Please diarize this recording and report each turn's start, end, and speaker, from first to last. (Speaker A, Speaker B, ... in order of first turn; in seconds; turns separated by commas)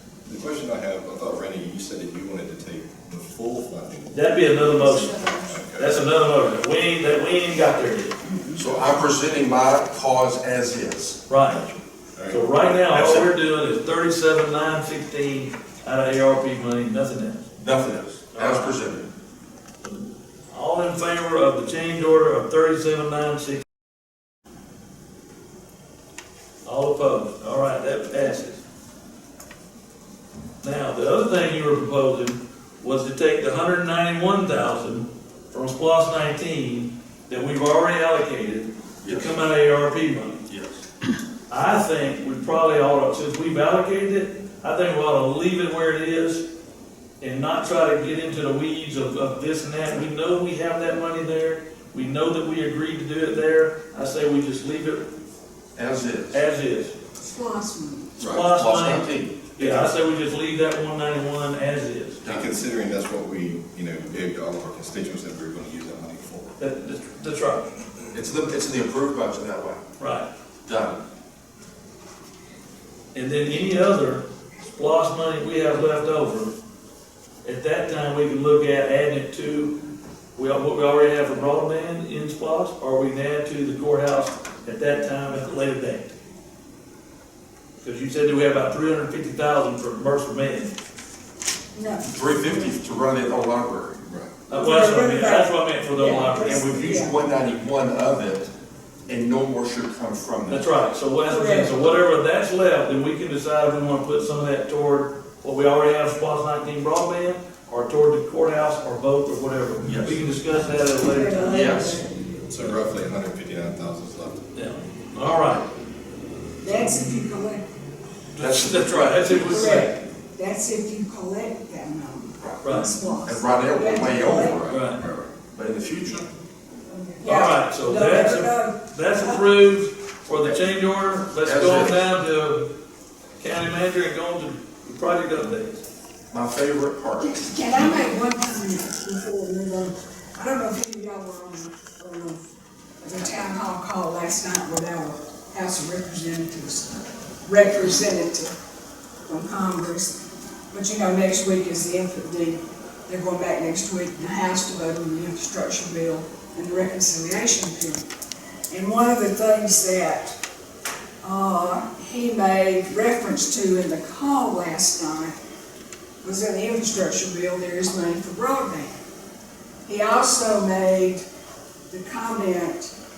Speaker A: 0.2-4.2, Speaker B: 4.1-5.1, Speaker C: 4.6-5.5, Speaker A: 5.5-6.0, Speaker B: 5.7-8.2, Speaker C: 8.2-8.6, Speaker D: 8.6-11.2, Speaker B: 11.3-11.6, Speaker A: 11.5-12.4, Speaker B: 12.3-17.4, Speaker D: 12.9-13.3, Speaker D: 17.6-19.1, Speaker B: 18.3-18.8, Speaker B: 19.8-23.6, Speaker B: 26.6-28.6, Speaker B: 30.6-40.4, Speaker D: 39.0-39.4, Speaker D: 40.5-40.8, Speaker B: 41.5-46.5, Speaker B: 47.2-55.0, Speaker D: 55.8-56.4, Speaker B: 56.3-56.9, Speaker C: 57.2-58.1, Speaker D: 58.2-59.9, Speaker B: 58.2-62.2, Speaker D: 62.2-62.5, Speaker A: 62.2-66.5, Speaker B: 66.6-67.7, Speaker D: 68.1-69.8, Speaker B: 70.0-70.3, Speaker D: 70.6-71.0, Speaker B: 73.1-76.5, Speaker B: 77.4-79.7, Speaker B: 80.3-86.1, Speaker B: 87.8-90.7, Speaker C: 91.7-92.7, Speaker D: 92.1-94.0, Speaker B: 94.5-96.9, Speaker C: 94.5-97.2, Speaker D: 96.4-98.5, Speaker D: 99.1-100.7, Speaker B: 100.5-111.7, Speaker C: 101.2-101.8, Speaker D: 109.8-110.2, Speaker C: 111.0-112.1, Speaker D: 111.5-112.0, Speaker A: 112.5-114.4, Speaker B: 114.5-115.7, Speaker C: 116.6-117.6, Speaker B: 118.3-119.9, Speaker D: 118.4-119.3, Speaker C: 119.2-124.6, Speaker B: 122.6-123.0, Speaker D: 123.2-124.8, Speaker B: 124.7-125.0, Speaker A: 125.0-125.3, Speaker D: 125.5-126.3, Speaker C: 126.9-129.4, Speaker B: 127.2-132.7, Speaker D: 131.4-132.0, Speaker B: 133.4-135.8, Speaker D: 136.3-137.9, Speaker C: 137.2-142.4, Speaker C: 143.0-146.9, Speaker C: 147.4-148.5, Speaker C: 149.2-150.2, Speaker C: 150.7-158.0, Speaker C: 158.7-160.3, Speaker C: 161.2-165.3, Speaker C: 166.2-169.0, Speaker C: 169.8-171.2, Speaker C: 171.9-172.9